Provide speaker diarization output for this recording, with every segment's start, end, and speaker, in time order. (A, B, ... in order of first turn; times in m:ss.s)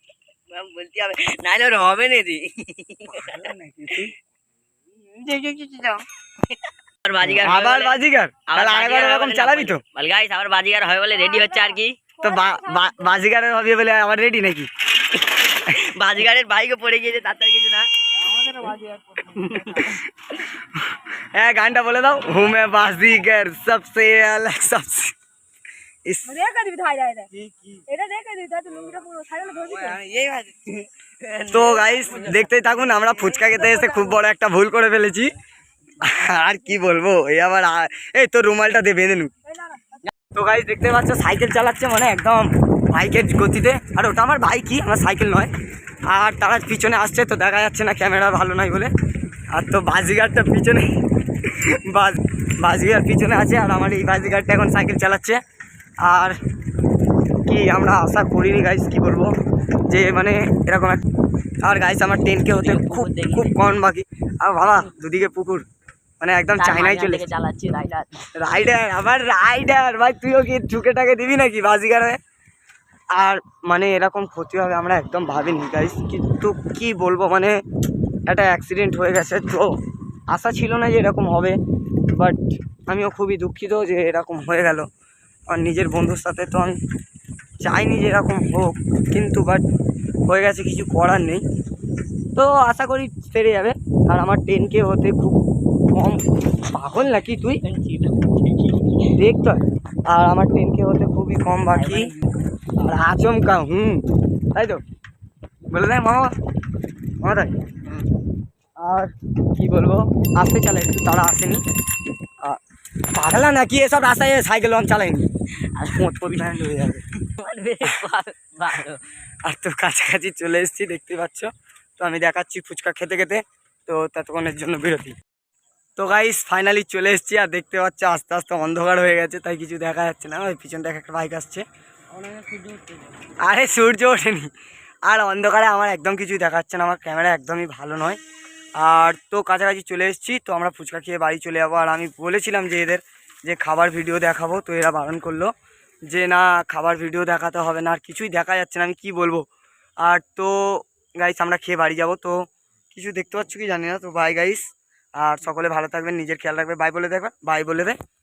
0:00.5-0:04.1 A
0:03.1-0:04.1 B
0:05.0-0:12.0 A
0:07.2-0:09.8 B
0:11.4-0:11.7 C
0:12.2-0:14.7 B
0:15.4-0:17.9 A
0:18.4-0:25.1 B
0:19.3-0:20.0 A
0:26.0-0:26.4 B
0:26.3-0:27.3 C
0:27.4-0:27.8 B
0:27.8-0:29.9 C
0:29.5-0:33.8 A
0:31.5-0:35.3 B
0:36.0-0:39.3 B
0:39.5-0:39.8 C
0:40.2-0:45.5 B
0:46.1-0:48.9 B
0:49.5-0:50.9 B
0:51.4-0:55.4 B
0:56.0-0:56.4 B
0:57.4-0:59.3 B
0:59.9-1:01.0 B
1:01.6-1:05.6 B
1:02.5-1:03.6 A
1:06.2-1:07.2 B
1:06.6-1:08.3 A
1:08.3-1:12.2 B
1:13.1-1:17.6 B
1:18.3-1:19.7 B
1:20.3-1:21.6 B
1:22.1-1:24.9 B
1:25.5-1:26.8 B
1:27.6-1:29.6 B
1:30.3-1:31.4 B
1:32.3-1:35.4 B
1:35.9-1:37.6 B
1:37.6-1:39.1 A
1:39.1-1:42.1 B
1:41.7-1:42.3 A
1:42.8-1:44.0 B
1:44.5-1:44.8 B
1:45.7-1:46.3 B
1:47.2-1:47.5 B
1:48.8-1:51.6 B
1:53.1-1:55.3 B
1:55.7-1:56.5 A
1:55.8-1:57.0 B
1:57.2-1:59.0 A
1:59.4-2:05.2 B
2:06.0-2:11.6 B
2:12.2-2:13.0 A
2:13.4-2:14.5 B
2:15.0-2:18.2 B
2:18.8-2:25.5 B
2:26.1-2:29.4 B
2:30.0-2:32.4 B
2:32.9-2:38.0 B